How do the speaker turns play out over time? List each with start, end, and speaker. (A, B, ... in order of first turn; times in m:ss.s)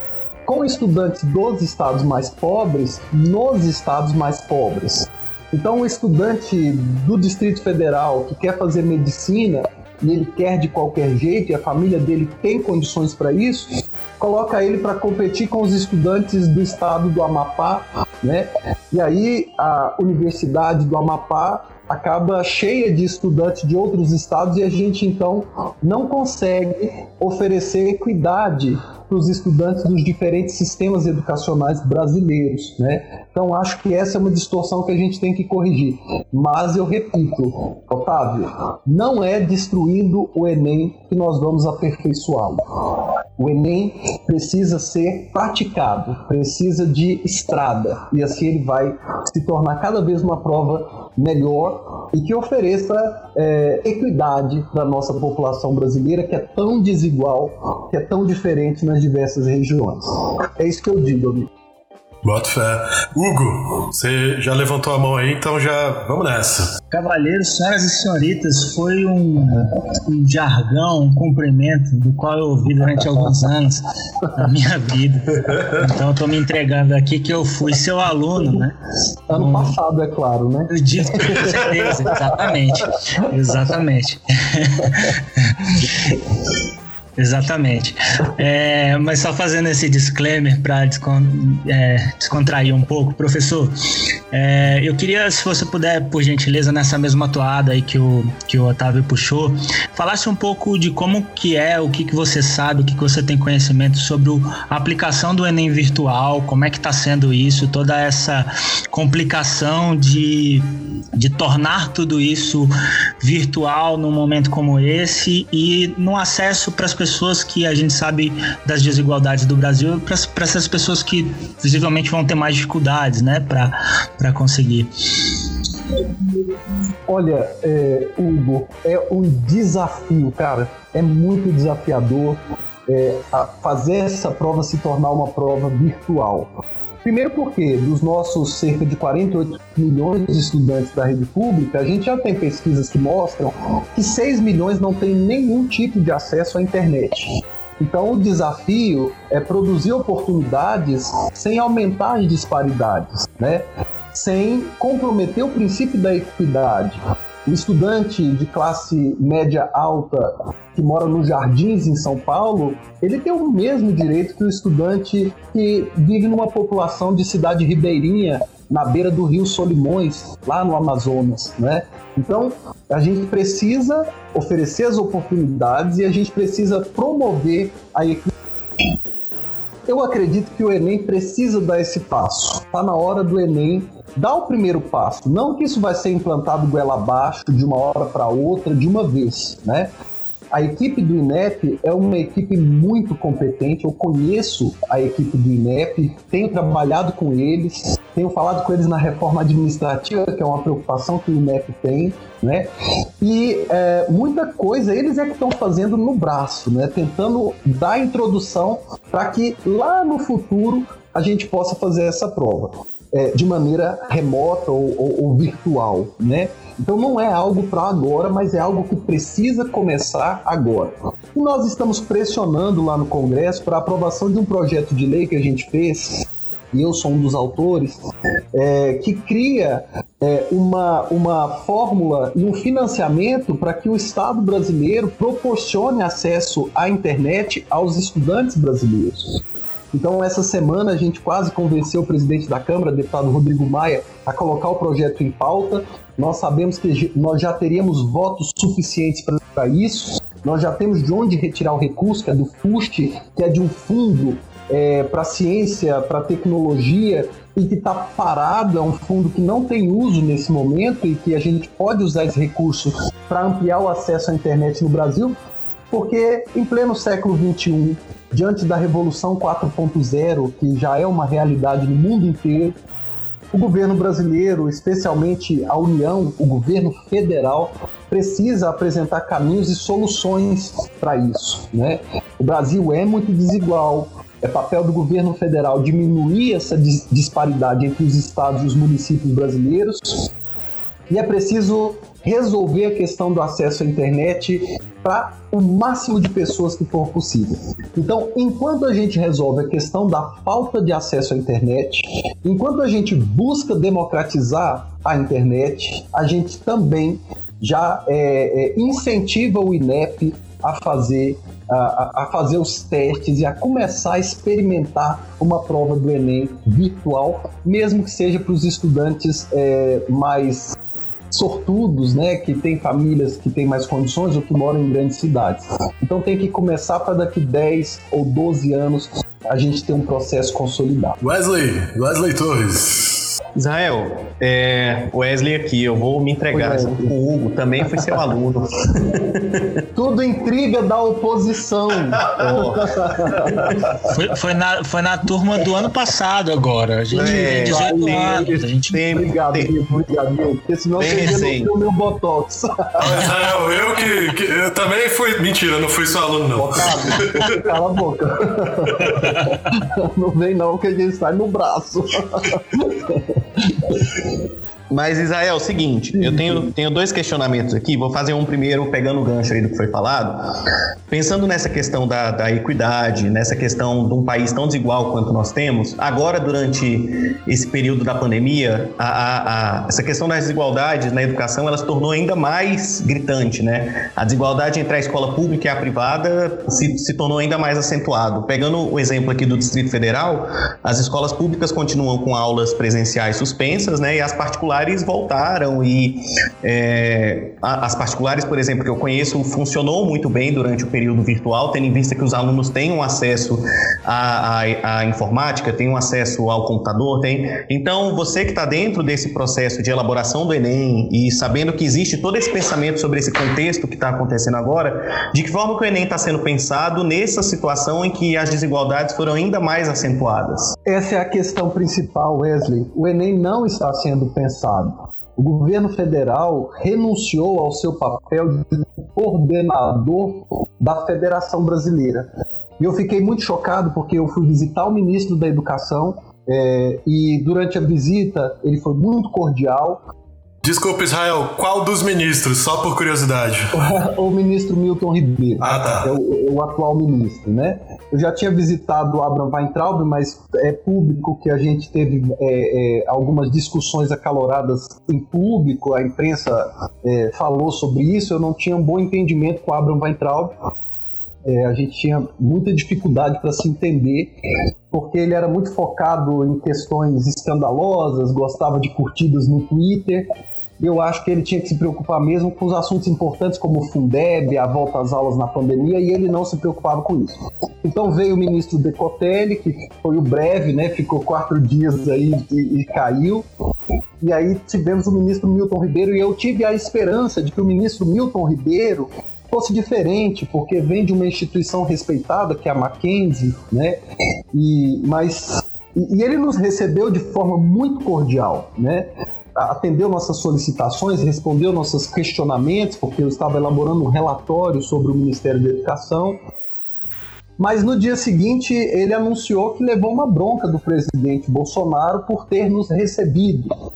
0:00.5-0:42.6 A
0:43.4-1:01.5 A
1:02.2-1:06.8 B
1:06.9-1:18.8 C
1:19.3-1:19.8 C
1:19.3-1:22.5 A
1:20.7-1:26.2 C
1:21.3-1:21.6 B
1:27.2-1:33.7 C
1:34.3-2:04.9 C
2:07.1-2:58.3 A
2:59.9-3:09.9 A
3:10.5-3:22.7 A
3:23.2-3:48.0 A
3:48.5-4:25.4 A
4:25.9-4:32.8 A
4:33.5-4:50.3 A
4:51.1-5:20.8 A
5:21.3-5:31.2 A
5:31.2-5:33.3 B
5:33.6-5:39.8 D
5:36.5-5:37.1 A
5:39.9-5:44.1 A
5:42.2-5:43.8 D
5:44.1-5:49.0 C
5:47.1-5:49.7 D
5:47.2-5:53.3 A
5:51.0-5:51.7 D
5:53.0-5:57.7 B
5:56.6-6:04.2 A
5:58.9-5:59.2 B
6:04.9-6:10.5 D
6:06.1-6:06.7 A
6:11.1-7:00.8 D
7:00.9-7:12.3 A
7:12.8-7:20.0 A
7:20.6-7:23.7 B
7:23.7-7:40.6 A
7:25.6-7:26.1 B
7:41.4-7:44.4 A
7:44.9-7:50.3 A
7:50.8-8:03.4 A
8:04.2-8:14.0 A
8:14.5-8:26.4 A
8:27.6-8:33.7 A